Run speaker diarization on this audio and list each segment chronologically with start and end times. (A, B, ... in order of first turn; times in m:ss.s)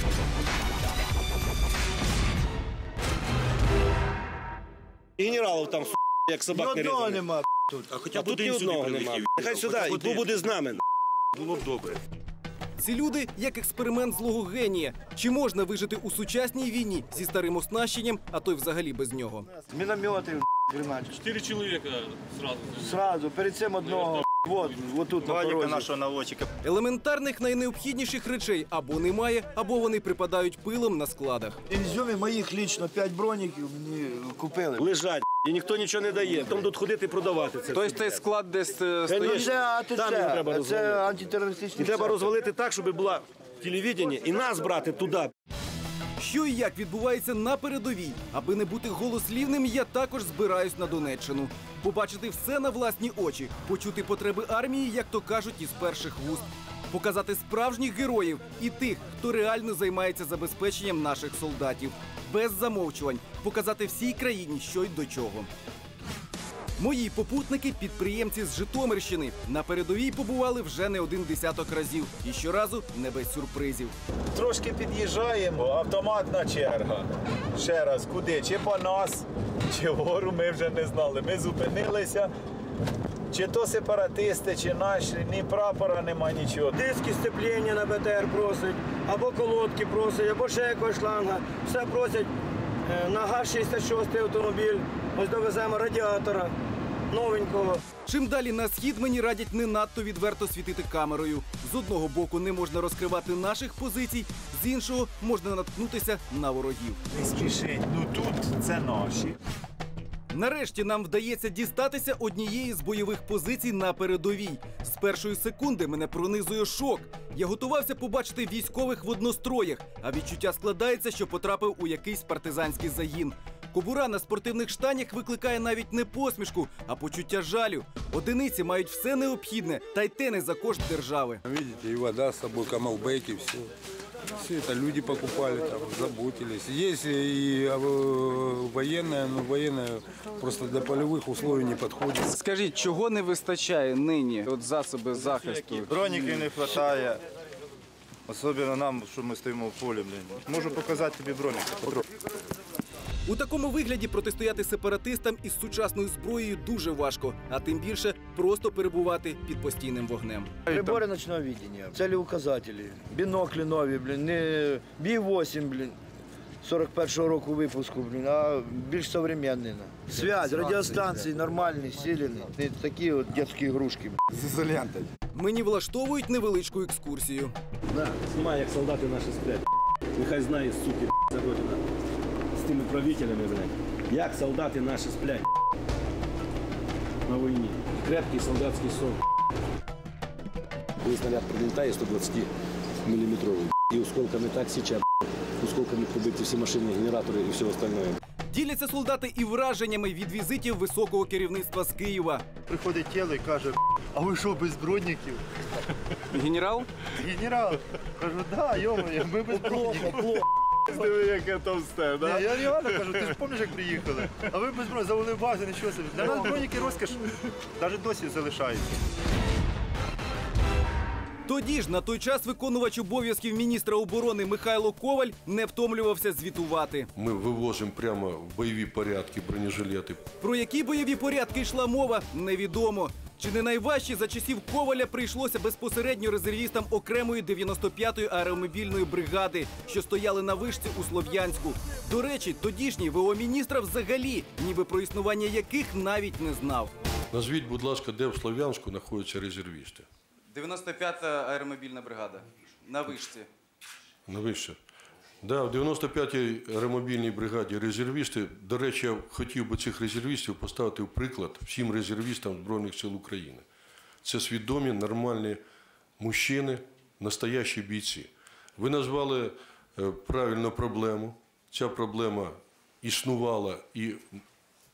0:06.3-0:07.2 A
0:06.5-0:08.0 B
0:08.2-0:09.9 C
0:08.3-0:10.7 A
0:12.8-0:19.5 D
0:19.7-0:21.7 B
0:22.7-0:25.9 B
0:25.2-0:26.5 E
0:26.6-0:31.6 D
0:31.7-0:35.0 B
0:34.8-0:37.9 A
0:37.7-0:39.4 D
0:39.1-0:41.0 A
0:39.1-0:42.3 B
0:41.8-0:42.9 A
0:43.6-0:45.3 A
0:46.2-1:05.5 D
1:06.8-1:13.9 D
1:14.3-1:22.3 F
1:23.3-1:26.8 F
1:26.8-1:32.3 G
1:32.9-1:36.5 G
1:37.1-1:37.8 G
1:38.0-1:47.0 D
1:47.1-1:49.4 F
1:50.3-2:11.4 D
2:11.5-2:13.7 H
2:14.4-2:22.2 H
2:22.2-2:26.0 D
2:25.9-2:27.2 E
2:28.3-2:32.0 E
2:33.2-2:40.7 D
2:40.7-2:46.0 B
2:46.6-2:54.2 B
2:54.4-2:55.1 H
2:55.3-2:57.5 D
2:57.9-2:59.6 A
3:00.2-3:01.8 A
3:02.7-3:03.4 A
3:04.1-3:05.3 A
3:07.4-3:09.2 A
3:11.0-3:11.4 A
3:11.9-3:12.5 A
3:13.1-3:15.0 A
3:15.6-3:18.2 A
3:18.5-3:22.4 D
3:22.7-3:25.4 E
3:26.3-3:26.9 D
3:27.2-3:31.5 E
3:30.9-3:32.4 F
3:32.1-3:37.2 E
3:37.8-3:38.9 E
3:41.4-3:47.1 D
3:47.1-3:50.2 C
3:50.4-4:06.9 D
4:07.3-4:10.0 C
4:10.5-4:13.5 D
4:14.3-4:14.8 C
4:15.4-4:23.6 C
4:24.2-4:25.6 C
4:26.2-4:34.2 C